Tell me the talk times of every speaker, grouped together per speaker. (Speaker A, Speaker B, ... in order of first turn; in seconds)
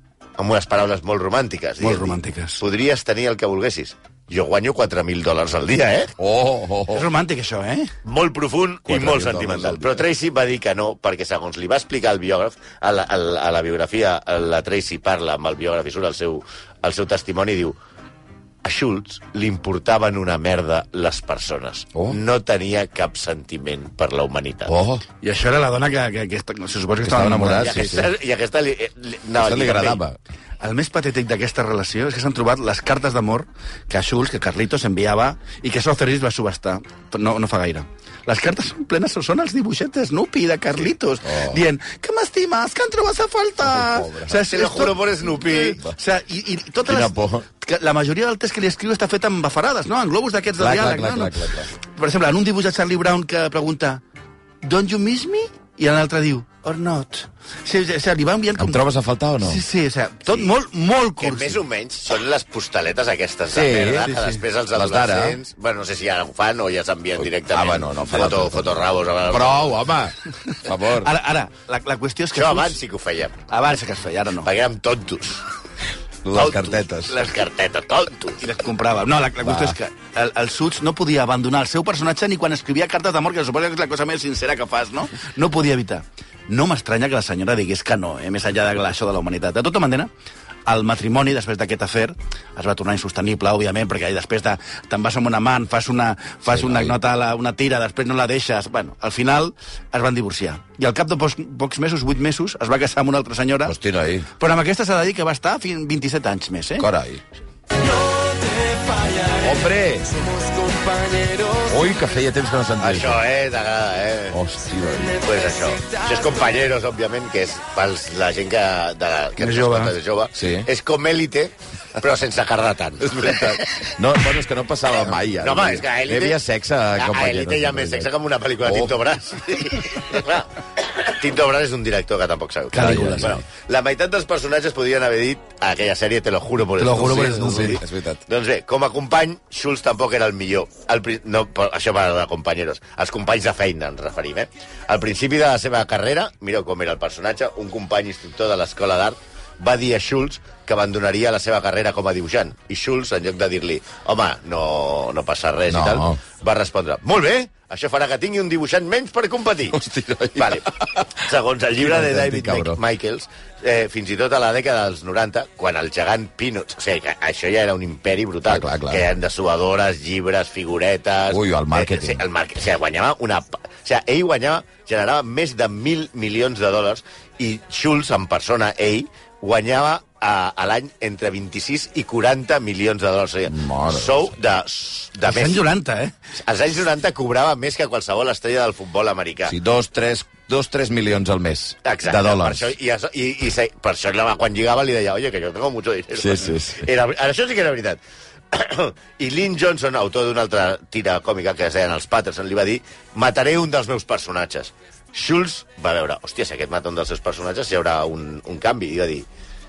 Speaker A: 0.4-6.1, 8.0-17.8, 18.6-24.7, 27.6-30.0, 44.5-45.8, 61.2-69.8, 72.3-73.4, 74.4-75.4, 76.3-78.4, 112.8-114.4, 115.2-123.9, 125.4-126.4, 127.0-159.8, 160.3-185.6, 186.4-189.5, 191.8-198.0, 198.5-209.2
Speaker B: 1.8-2.6, 6.9-7.9, 25.2-27.9, 30.6-51.4, 51.9-54.0, 54.6-58.8, 59.4-61.6, 70.9-72.8, 73.5-74.5, 78.4-90.1, 90.7-103.8, 104.4-106.9, 108.0-109.4, 110.3-111.7, 119.4-119.9, 132.7-133.4, 136.8-137.8, 185.2-186.1
Speaker C: 6.2-7.0, 8.9-10.0, 24.7-25.0, 27.0-28.1, 29.4-30.2, 41.2-41.6, 43.6-44.4, 46.9-47.4, 50.6-51.7, 58.6-59.6, 63.5-65.4, 67.2-71.1, 76.2-77.2, 79.4-79.8, 96.5-97.0, 103.6-104.3, 106.8-107.2, 109.4-110.1, 111.6-113.2, 114.3-115.2, 120.3-120.7, 123.0-128.1, 128.6-128.9, 132.7-133.4, 137.0-138.2, 155.7-156.2, 159.7-162.8, 168.5-169.0, 171.3-172.2, 183.5-184.3, 189.4-192.7, 196.2-196.9